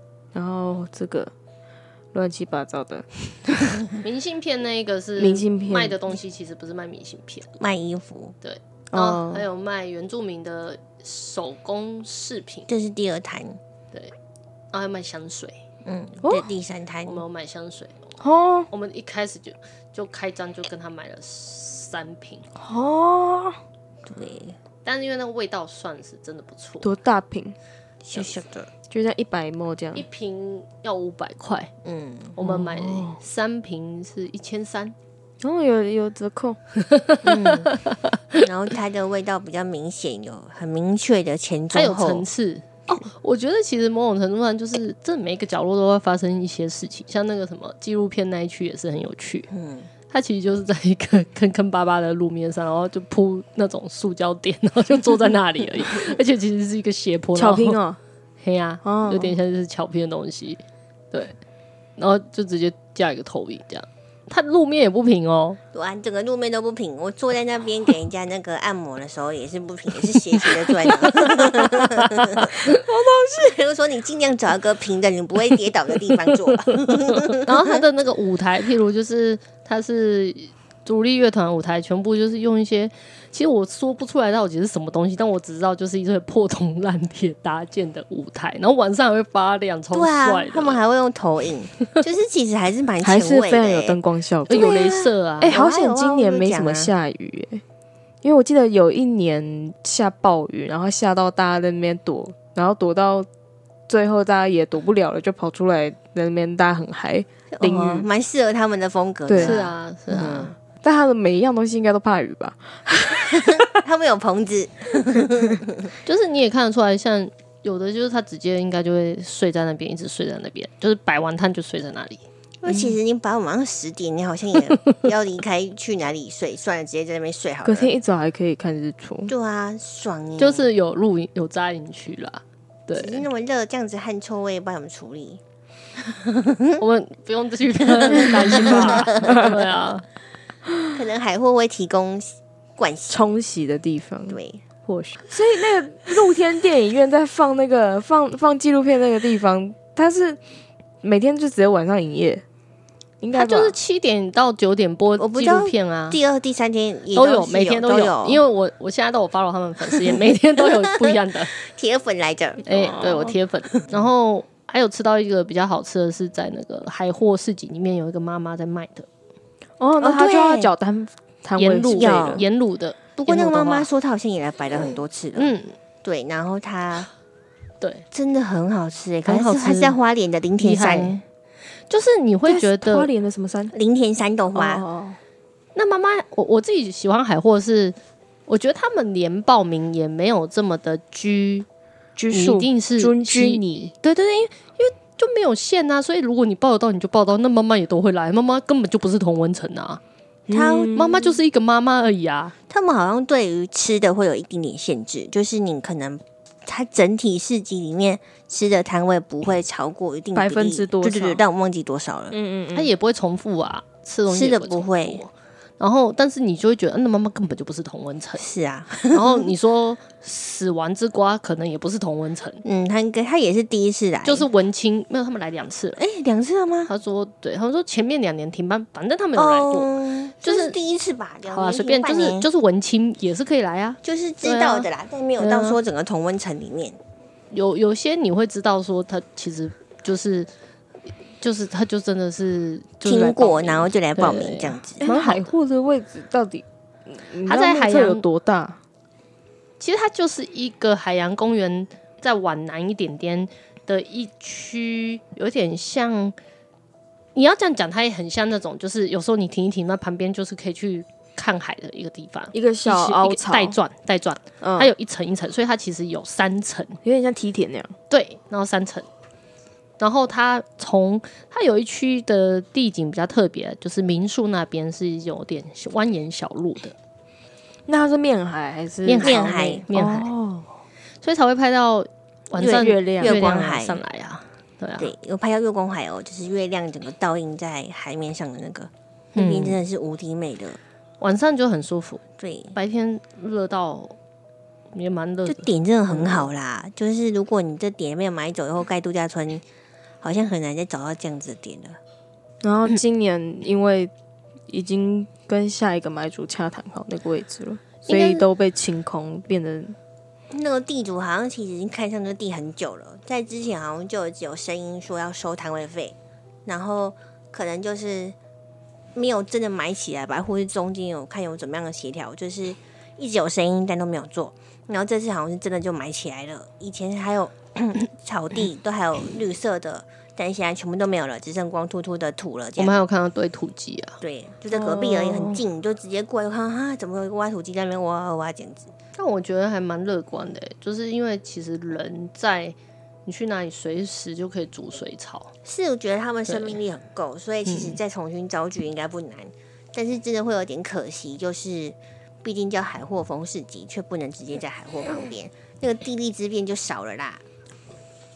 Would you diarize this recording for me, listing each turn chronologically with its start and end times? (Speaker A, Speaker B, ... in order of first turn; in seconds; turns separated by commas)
Speaker A: 0.3-1.3, Speaker A: 2.1-3.8, Speaker B: 4.0-7.5, Speaker A: 5.2-6.0, Speaker C: 7.6-8.3, Speaker B: 8.4-12.7, Speaker A: 8.9-9.5, Speaker C: 12.7-13.6, Speaker B: 14.7-15.6, Speaker C: 15.8-17.2, Speaker A: 16.2-16.5, Speaker B: 17.0-18.1, Speaker A: 18.2-18.7, Speaker B: 18.7-22.4, Speaker A: 22.6-23.6, Speaker C: 24.1-24.6, Speaker B: 24.8-26.9, Speaker A: 26.8-27.6, Speaker C: 28.0-28.7, Speaker B: 28.1-28.4, Speaker A: 28.9-30.1, Speaker B: 29.9-31.7, Speaker C: 31.8-32.4, Speaker B: 32.4-34.9, Speaker A: 32.4-33.1, Speaker A: 35.4-36.6, Speaker B: 36.9-38.4, Speaker C: 37.2-37.7, Speaker C: 38.4-42.3, Speaker B: 41.7-49.5, Speaker C: 49.5-49.9, Speaker B: 50.1-57.8, Speaker A: 57.3-58.0, Speaker B: 58.4-60.6, Speaker A: 58.8-59.3, Speaker B: 62.0-65.6, Speaker C: 65.7-72.6, Speaker B: 70.8-71.2, Speaker B: 72.2-72.6, Speaker A: 72.7-73.5, Speaker C: 73.2-77.8, Speaker B: 77.3-90.8, Speaker C: 89.9-96.9, Speaker A: 93.0-97.6, Speaker B: 94.5-95.6, Speaker A: 98.2-103.3, Speaker A: 103.9-108.0, Speaker C: 107.5-110.5, Speaker A: 109.3-109.6, Speaker B: 109.3-110.5, Speaker A: 110.1-113.8, Speaker C: 113.3-115.9, Speaker B: 116.0-122.2, Speaker C: 122.6-127.9, Speaker A: 127.6-129.3, Speaker C: 129.3-130.7, Speaker B: 130.4-133.2, Speaker C: 132.9-135.4, Speaker C: 136.1-136.8, Speaker B: 136.8-140.0, Speaker C: 138.0-139.4, Speaker A: 138.4-138.9, Speaker C: 140.9-143.3, Speaker A: 143.1-150.4, Speaker C: 144.3-144.6, Speaker A: 151.0-152.4, Speaker A: 153.2-153.7, Speaker B: 153.3-156.2, Speaker C: 155.2-158.4, Speaker B: 157.1-161.5, Speaker C: 160.6-163.0, Speaker B: 162.6-169.1, Speaker A: 162.9-163.3, Speaker A: 169.8-172.4, Speaker C: 170.0-170.7, Speaker B: 171.6-173.9, Speaker C: 171.9-172.5, Speaker C: 173.2-177.1, Speaker B: 175.3-175.7, Speaker B: 177.8-178.0, Speaker C: 178.1-181.2, Speaker B: 179.2-180.0, Speaker B: 180.6-181.2, Speaker B: 181.9-183.1, Speaker A: 182.4-183.7, Speaker C: 183.7-184.8, Speaker A: 184.5-185.2, Speaker B: 185.7-187.9, Speaker B: 188.5-191.7, Speaker A: 192.2-193.9, Speaker B: 192.3-200.0, Speaker A: 200.5-201.4, Speaker C: 200.5-201.0, Speaker B: 200.9-202.5, Speaker C: 202.7-212.4, Speaker A: 210.3-211.4, Speaker A: 212.3-212.9, Speaker B: 212.7-218.4, Speaker C: 214.3-215.2, Speaker C: 218.4-219.5, Speaker B: 219.1-222.6, Speaker C: 222.6-224.5, Speaker B: 224.2-226.0, Speaker C: 226.0-226.9, Speaker B: 226.9-230.8, Speaker C: 229.3-232.5, Speaker B: 231.4-235.8, Speaker C: 234.0-237.0, Speaker B: 237.5-240.5, Speaker B: 241.4-245.5, Speaker C: 243.0-245.1, Speaker A: 245.0-248.8, Speaker B: 247.4-248.2, Speaker B: 249.8-256.3, Speaker B: 257.3-267.0, Speaker A: 262.5-263.8, Speaker A: 264.6-264.9, Speaker A: 267.0-267.9, Speaker B: 268.1-269.1, Speaker B: 270.0-276.9, Speaker A: 277.9-280.7, Speaker B: 279.0-280.3, Speaker C: 279.2-279.9, Speaker B: 281.2-285.1, Speaker C: 282.6-284.0, Speaker A: 282.6-283.4, Speaker C: 285.0-290.8, Speaker B: 289.3-289.8, Speaker B: 291.2-292.2, Speaker C: 292.4-292.8, Speaker B: 292.7-294.1, Speaker B: 294.9-296.5, Speaker C: 295.4-299.6, Speaker C: 300.2-302.0, Speaker A: 302.6-304.1, Speaker A: 304.7-309.9, Speaker B: 308.0-308.4, Speaker C: 310.5-316.1, Speaker C: 316.6-318.3, Speaker C: 319.1-333.0, Speaker B: 332.8-334.2, Speaker C: 334.2-338.9, Speaker A: 334.7-335.6, Speaker B: 339.1-345.5, Speaker C: 345.6-357.4, Speaker B: 346.5-346.8, Speaker B: 347.6-348.0